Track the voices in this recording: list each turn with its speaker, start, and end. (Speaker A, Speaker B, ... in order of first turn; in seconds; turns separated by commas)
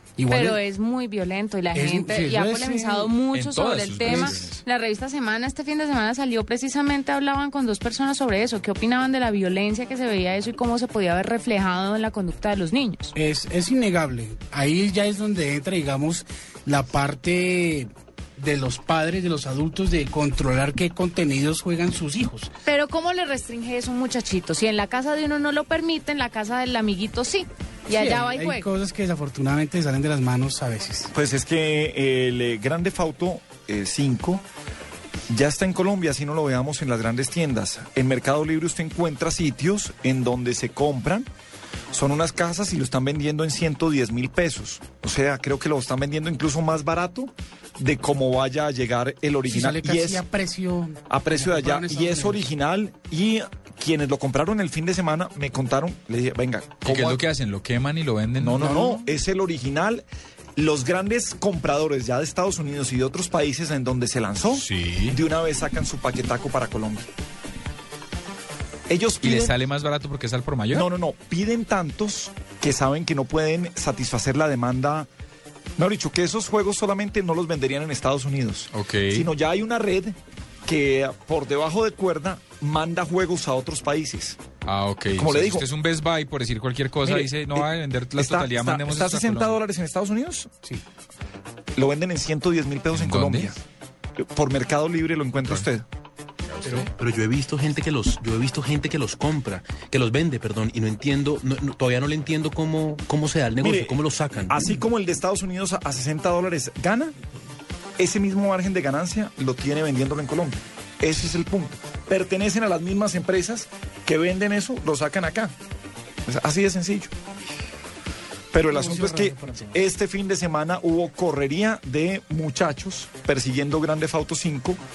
Speaker A: 0.2-0.6, Speaker B: 0.3-13.1, Speaker A: 1.7-3.1, Speaker C: 3.3-4.6, Speaker A: 4.0-4.4, Speaker A: 13.2-22.5, Speaker B: 22.6-28.6, Speaker A: 27.9-31.1, Speaker D: 31.1-34.4, Speaker D: 35.3-41.3, Speaker D: 41.9-50.2, Speaker A: 49.5-52.5, Speaker D: 51.1-57.2, Speaker C: 56.8-58.8, Speaker D: 58.4-60.0, Speaker A: 58.6-59.1, Speaker D: 60.6-67.1, Speaker C: 64.5-65.2, Speaker D: 68.9-69.5, Speaker C: 69.2-70.9, Speaker D: 70.7-75.1, Speaker D: 75.8-80.1, Speaker C: 78.7-79.3, Speaker D: 80.7-84.4, Speaker C: 84.6-89.6, Speaker D: 85.1-85.6, Speaker D: 87.0-90.5, Speaker D: 91.8-93.6, Speaker C: 92.9-93.5, Speaker D: 94.3-95.8, Speaker C: 96.5-96.9, Speaker E: 96.6-104.7, Speaker D: 103.6-107.1, Speaker D: 108.0-115.5, Speaker D: 116.2-117.1, Speaker D: 118.5-124.8, Speaker A: 118.7-119.8